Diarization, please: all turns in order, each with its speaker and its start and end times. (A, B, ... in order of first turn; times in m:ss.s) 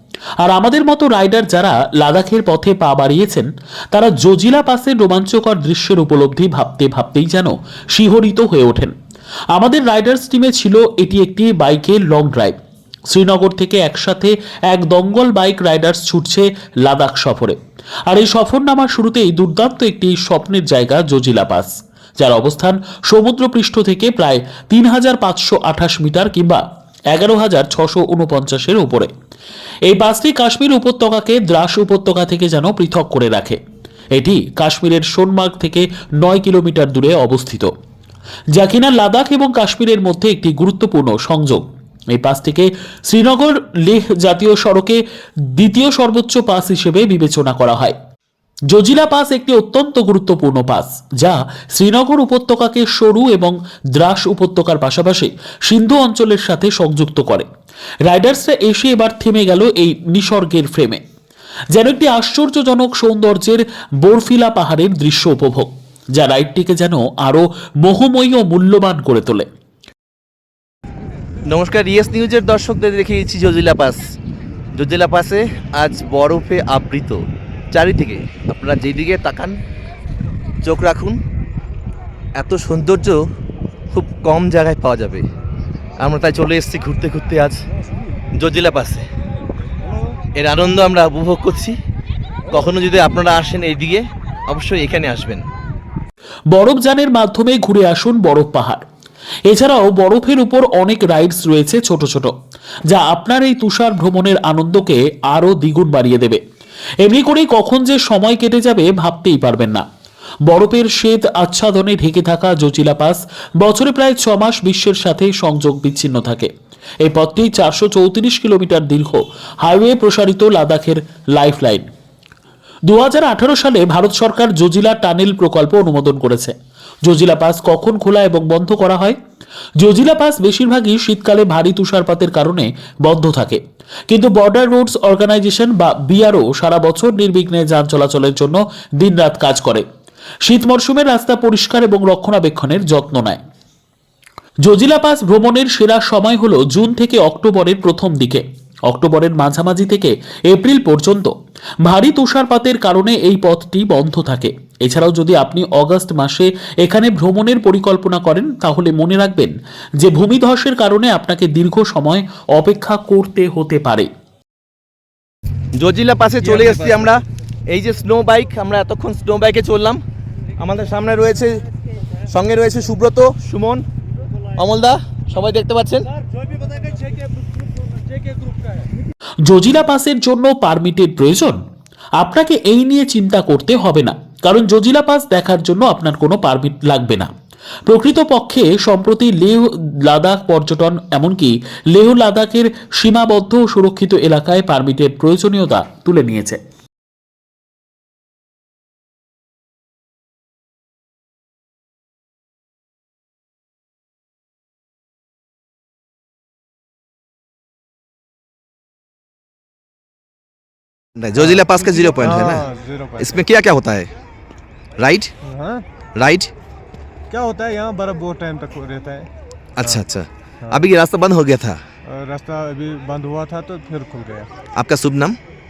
0:00.4-0:08.9 A
0:09.5-0:12.6 A
0:13.1-0:17.6 A
0:18.1-0:29.1 A
0:29.9-0:33.6 A
0:34.2-0:37.7 A
0:38.5-0:45.0 A
0:45.5-0:48.0 A
0:48.7-0:57.5 A
0:58.1-1:01.0 A
1:01.7-1:09.5 A
1:11.5-1:14.0 B
1:14.8-1:17.2 B
1:17.7-1:19.6 B
1:20.6-1:21.2 B
1:22.4-1:23.2 B
1:23.9-1:25.2 B
1:26.0-1:27.6 B
1:28.4-1:29.0 B
1:30.4-1:31.8 B
1:32.5-1:35.4 B
1:36.5-1:38.8 A
1:39.5-1:42.3 A
1:42.9-1:46.4 A
1:47.0-1:49.8 A
1:50.5-1:56.5 A
1:57.0-2:01.9 A
2:02.9-2:06.5 A
2:07.0-2:09.2 A
2:09.8-2:19.8 A
2:20.4-2:23.4 A
2:24.6-2:31.3 A
2:31.9-2:44.1 A
2:45.8-2:50.0 B
2:50.6-2:51.6 B
2:52.3-2:53.8 B
2:54.6-2:56.1 B
2:59.4-3:01.6 A
3:02.2-3:07.3 A
3:07.9-3:16.6 A
3:31.2-3:32.6 B
3:31.4-3:33.4 C
3:33.2-3:34.1 B
3:35.0-3:35.3 B
3:35.4-3:35.9 C
3:36.2-3:36.5 B
3:37.3-3:39.3 C
3:39.8-3:41.8 B
3:42.0-3:44.5 C
3:44.8-3:45.4 B